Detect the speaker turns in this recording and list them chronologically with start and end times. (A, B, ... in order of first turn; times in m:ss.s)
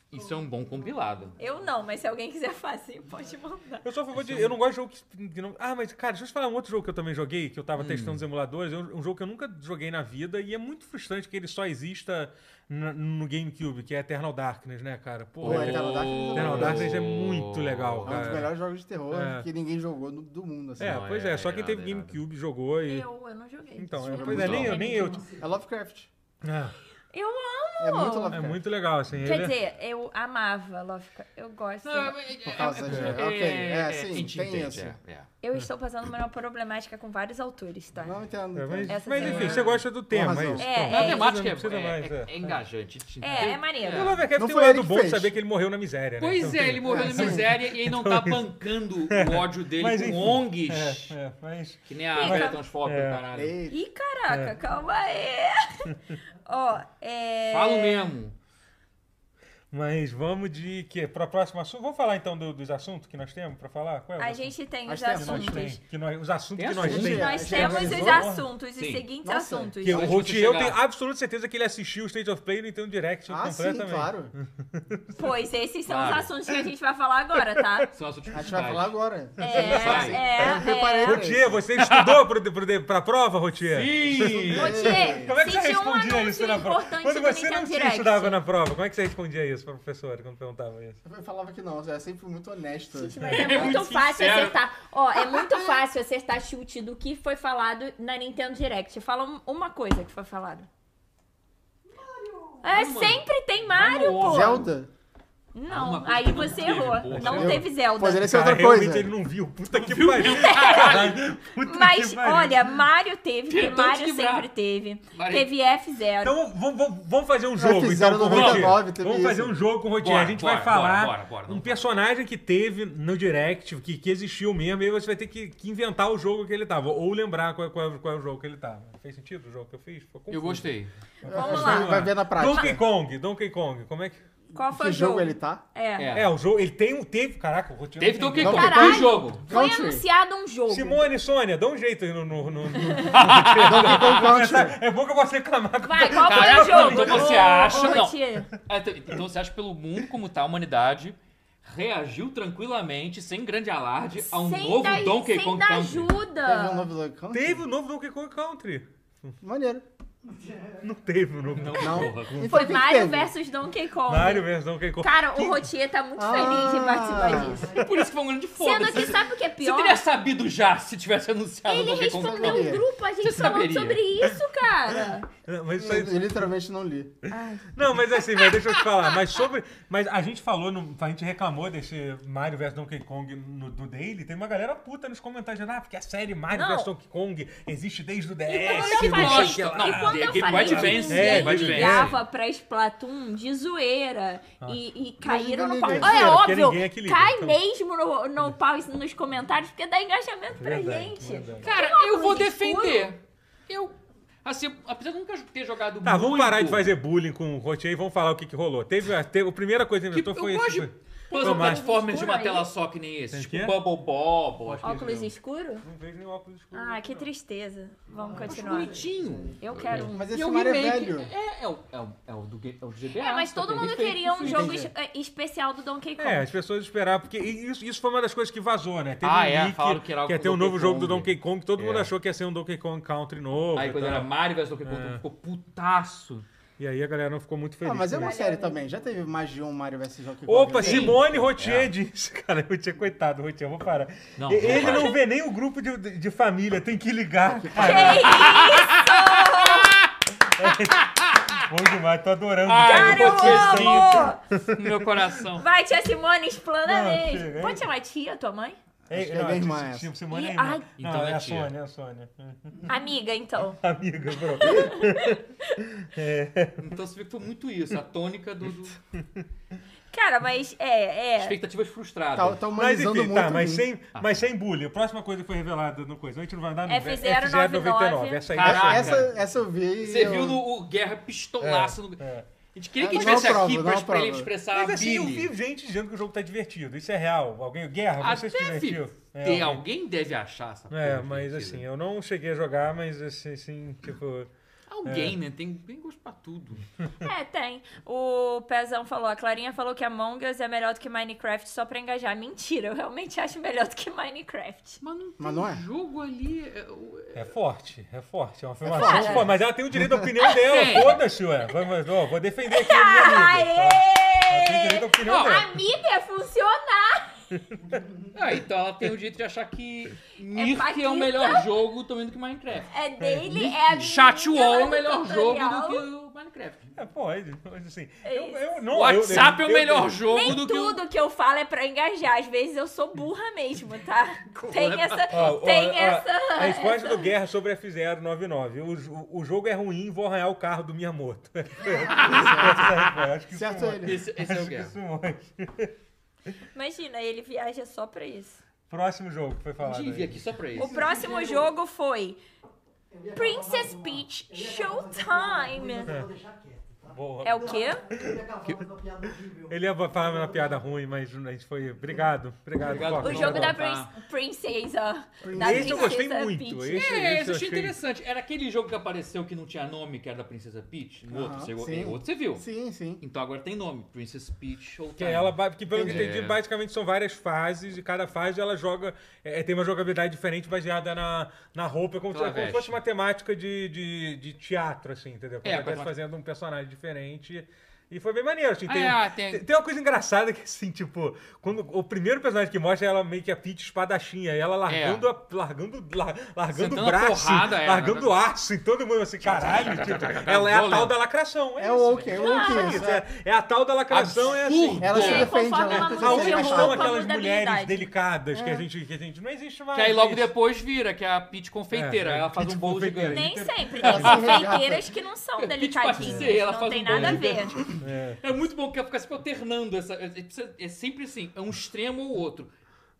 0:00.1-0:01.4 A
0:00.1-0:01.8 B
0:01.4-0:03.8 C
0:03.1-0:03.4 B
0:03.8-0:18.5 D
0:04.1-0:04.6 A
0:07.7-0:08.2 A
0:15.4-0:18.5 A
0:15.4-0:17.0 E
0:18.0-0:21.0 E
0:19.1-0:19.4 D
0:20.8-0:22.2 A
0:20.8-0:23.1 D
0:22.8-0:25.2 C
0:23.8-0:25.2 D
0:23.9-0:24.7 E
0:24.5-0:25.6 B
0:25.4-0:26.1 E
0:26.4-0:26.8 D
0:27.1-0:28.4 C
0:27.8-0:28.6 E
0:28.3-0:29.5 D
0:29.2-0:32.2 C
0:31.8-0:35.3 A
0:32.4-0:34.9 E
0:32.8-0:33.2 D
0:35.4-0:38.2 C
0:38.0-0:40.9 E
0:38.5-0:42.5 D
0:38.9-0:39.7 C
0:39.2-0:39.8 A
0:40.6-0:41.3 C
0:40.9-0:44.3 A
0:43.2-0:44.1 C
0:43.3-0:48.4 D
0:44.3-0:45.3 E
0:46.2-0:51.2 A
0:46.8-0:47.4 E
0:49.1-0:53.2 D
0:51.9-0:53.6 A
0:52.1-0:52.6 C
0:53.3-0:53.8 E
0:53.7-0:58.1 C
0:54.3-0:54.6 D
0:57.5-0:58.3 A
0:59.7-1:04.5 D
1:04.2-1:05.8 C
1:04.9-1:05.7 E
1:05.1-1:08.5 D
1:06.6-1:07.3 A
1:06.8-1:08.4 E
1:06.9-1:10.0 C
1:08.8-1:09.0 A
1:09.2-1:10.1 E
1:09.8-1:15.3 D
1:09.9-1:10.8 A
1:13.3-1:14.3 E
1:15.2-1:17.9 C
1:15.9-1:16.3 A
1:17.9-1:18.9 A
1:18.3-1:21.6 E
1:19.4-1:21.2 C
1:19.4-1:31.0 D
1:19.6-1:20.2 A
1:21.8-1:22.2 A
1:23.6-1:24.9 A
1:24.2-1:25.4 E
1:24.6-1:28.4 C
1:31.0-1:33.2 E
1:32.9-1:40.7 C
1:33.2-1:34.4 D
1:33.2-1:34.6 A
1:35.2-1:35.7 A
1:41.8-1:42.8 B
1:42.6-1:44.7 C
1:42.7-1:44.7 A
1:44.1-1:44.9 E
1:45.5-1:48.3 C
1:45.7-1:47.6 A
1:47.1-1:47.6 D
1:47.2-1:49.1 E
1:48.2-1:52.7 D
1:49.7-1:51.2 A
1:50.3-1:56.4 C
1:53.5-1:54.5 A
1:55.1-1:55.5 A
1:56.2-2:10.7 D
1:57.6-1:59.6 E
1:58.3-1:58.8 A
2:00.0-2:01.8 A
2:10.3-2:10.9 A
2:11.2-2:14.2 D
2:11.2-2:12.8 C
2:11.3-2:12.8 E
2:14.5-2:16.1 C
2:14.5-2:15.6 E
2:16.0-2:16.3 A
2:16.1-2:19.0 D
2:18.0-2:19.4 A
2:18.4-2:20.0 E
2:18.4-2:21.0 C
2:20.7-2:28.0 D
2:22.8-2:23.1 C
2:23.1-2:24.2 A
2:23.4-2:24.8 E
2:25.8-2:28.5 C
2:26.1-2:36.1 A
2:34.2-2:36.9 C
2:36.4-2:37.6 E
2:37.3-2:39.3 D
2:39.4-2:39.8 E
2:40.2-2:41.0 B
2:40.8-2:42.5 D
2:41.5-2:42.5 A
2:41.8-2:43.3 E
2:42.4-2:47.8 C
2:44.1-2:45.7 D
2:46.2-2:47.7 E
2:47.3-2:47.9 B
2:47.7-2:54.0 A
2:48.6-2:50.0 C
2:51.7-2:55.3 C
2:52.2-2:52.8 E
2:55.4-2:56.5 D
2:55.7-2:57.1 E
2:57.3-2:58.5 C
2:57.7-3:12.2 D
3:06.5-3:06.9 C
3:08.5-3:23.1 C
3:08.5-3:12.2 A
3:15.2-3:16.5 E
3:15.9-3:17.6 D
3:20.6-3:21.7 D
3:21.6-3:26.9 A
3:26.0-3:31.8 D
3:30.1-3:35.1 A
3:31.3-3:32.7 C
3:33.3-3:33.7 D
3:34.6-3:35.3 D
3:34.8-3:35.8 C
3:35.8-3:37.3 D
3:36.7-3:39.0 C
3:38.1-3:39.6 B
3:38.3-3:44.8 A
3:39.6-3:40.3 C
3:40.0-3:41.3 E
3:43.2-3:46.5 C
3:44.4-3:44.9 E
3:46.2-3:54.3 D
3:49.2-3:52.1 A
3:53.7-3:56.4 A
3:54.8-3:55.2 D
3:56.8-3:58.4 D
3:57.8-4:01.2 E
3:58.1-3:59.0 C
4:00.4-4:08.6 D
4:00.7-4:01.9 A
4:04.4-4:05.2 A
4:04.7-4:05.2 C
4:07.5-4:08.1 E
4:07.7-4:10.0 C
4:08.2-4:10.1 A
4:10.4-4:15.3 D
4:10.9-4:11.6 A
4:12.6-4:15.6 A
4:12.8-4:14.4 C
4:15.6-4:18.8 C
4:16.8-4:17.8 D
4:19.1-4:20.1 E
4:19.1-4:22.9 D
4:20.3-4:20.8 C
4:21.0-4:21.7 A
4:22.8-4:23.8 C
4:23.8-4:26.8 D
4:24.6-4:25.8 C
4:26.8-4:29.0 A
4:29.2-4:29.4 D
4:30.1-4:31.6 C
4:31.4-4:32.6 A
4:32.3-4:33.8 E
4:32.7-4:39.3 D
4:34.1-4:34.4 A
4:36.9-4:38.5 C
4:38.5-4:39.3 A
4:38.6-4:40.6 E
4:40.0-4:45.5 A
4:41.6-4:42.4 D
4:43.0-4:44.5 E
4:43.1-4:43.5 D
4:44.7-4:49.8 D
4:48.2-4:51.8 A
4:50.9-4:54.5 D
4:54.9-4:56.9 A
4:55.0-4:55.4 D
4:57.2-5:05.0 C
5:05.0-5:07.5 A
5:05.4-5:05.8 E
5:07.3-5:15.7 D
5:08.8-5:10.3 E
5:08.9-5:09.4 C
5:10.5-5:11.2 A
5:12.7-5:17.3 C
5:15.2-5:15.6 A
5:17.9-5:18.3 B
5:18.3-5:22.9 A
5:20.5-5:21.7 C
5:22.9-5:26.0 C
5:23.2-5:23.5 D
5:23.4-5:24.0 E
5:24.0-5:26.9 A
5:26.9-5:30.2 D
5:28.2-5:28.6 C
5:28.9-5:31.0 A
5:30.2-5:37.3 C
5:34.5-5:35.5 A
5:35.3-5:45.9 D
5:42.0-5:43.2 A
5:42.2-5:43.0 E
5:43.5-5:44.2 E
5:44.0-5:45.0 A
5:46.7-5:48.6 C
5:48.9-5:50.4 D
5:49.8-5:51.0 A
5:50.7-5:51.7 B
5:50.8-5:52.4 C
5:53.1-6:00.9 B
5:53.3-5:56.1 C
5:57.1-5:57.8 D
5:57.4-5:58.0 C
5:59.7-6:03.8 D
6:02.8-6:04.1 A
6:03.2-6:07.1 C
6:05.4-6:06.2 E
6:05.5-6:08.0 D
6:06.9-6:12.6 A
6:11.3-6:13.2 E
6:13.2-6:16.6 A
6:15.2-6:50.5 D
6:15.9-6:16.3 E
6:22.3-6:23.0 A
6:25.6-6:26.1 A
6:28.8-6:29.6 A
6:34.9-6:35.2 A
6:36.7-6:38.4 A
6:39.4-6:41.2 A
6:41.8-6:43.2 E
6:42.4-6:43.0 C
6:44.1-6:45.5 A
6:45.0-6:47.2 E
6:45.1-6:48.1 C
6:48.5-6:48.8 E
6:49.9-6:54.6 A
6:51.9-6:54.6 D
6:53.3-6:57.8 C
6:54.0-6:55.1 E
6:55.6-7:02.7 A
6:57.1-6:57.4 D
6:58.0-6:58.4 D